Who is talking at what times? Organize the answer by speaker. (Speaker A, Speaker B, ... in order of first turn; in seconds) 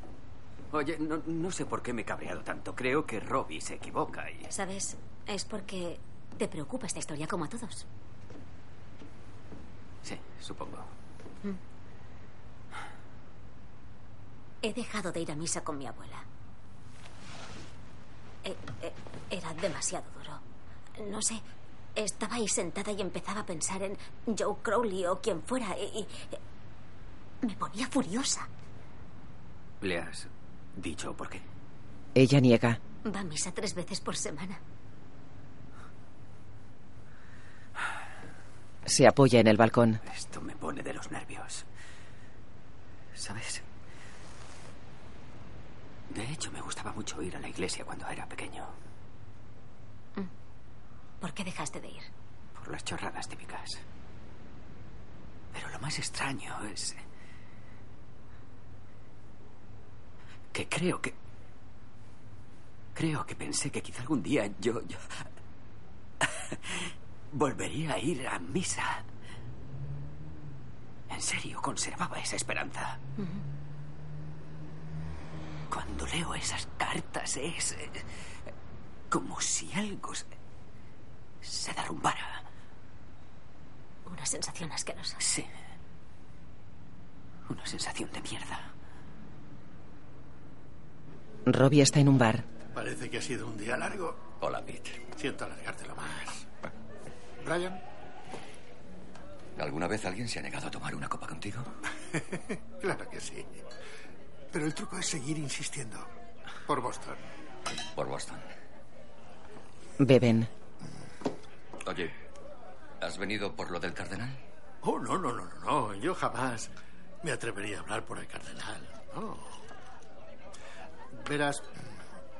Speaker A: 0.7-4.5, 10.1-10.9, 29.8-31.4, 40.1-41.6, 43.2-43.6, 46.1-48.7, 52.6-53.8, 55.5-57.0, 60.5-61.1, 63.0-65.0, 67.3-69.0, 71.1-73.0, 75.7-78.0, 79.1-80.2, 81.4-82.4, 87.5-88.6
Speaker B: 4.5-7.9, 14.6-16.3, 18.4-20.4, 21.0-21.4, 22.0-26.4, 27.4-28.5, 33.0-34.6, 51.2-52.1, 84.1-85.2
Speaker C: 32.1-32.8, 38.9-40.0, 91.5-92.5, 110.0-110.5
Speaker D: 92.7-94.2, 95.2-96.5, 97.4-97.8, 102.2-103.5, 104.5-106.1, 106.7-107.2, 114.8-119.6, 121.1-121.8
Speaker E: 94.4-95.0, 99.6-101.7, 108.0-108.5, 111.8-112.1, 113.0-114.4